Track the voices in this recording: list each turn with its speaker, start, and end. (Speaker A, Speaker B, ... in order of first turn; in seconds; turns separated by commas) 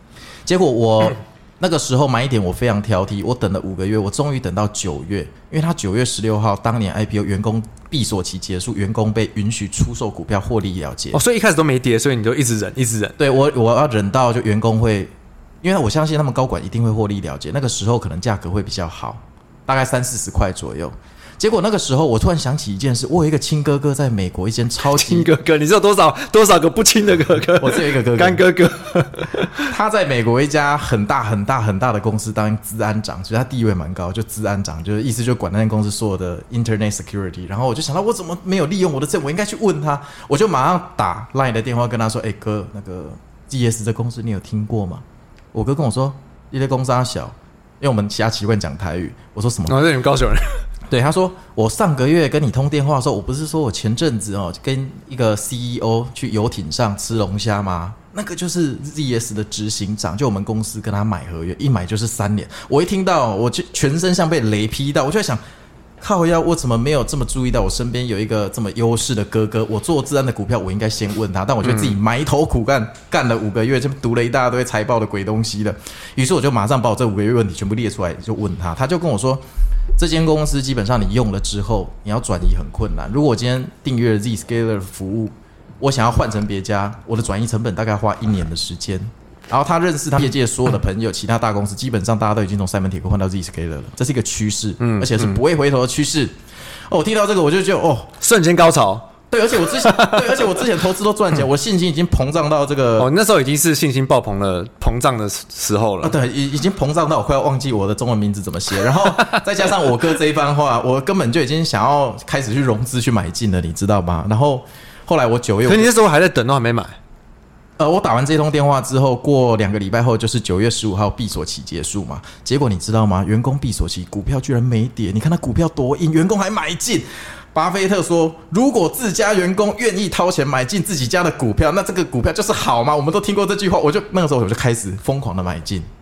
Speaker A: 0.5-11.2, Speaker B: 11.1-13.2, Speaker A: 13.2-25.3, Speaker B: 24.8-29.7, Speaker A: 27.6-28.4, Speaker A: 29.6-49.8, Speaker B: 49.7-50.6, Speaker A: 50.9-65.4, Speaker A: 66.0-79.4, Speaker A: 80.0-96.3, Speaker B: 94.8-95.4, Speaker A: 96.9-98.1, Speaker B: 98.2-100.6, Speaker A: 99.3-103.1, Speaker B: 103.0-106.1, Speaker A: 106.0-115.9, Speaker B: 115.7-117.0, Speaker A: 117.8-135.9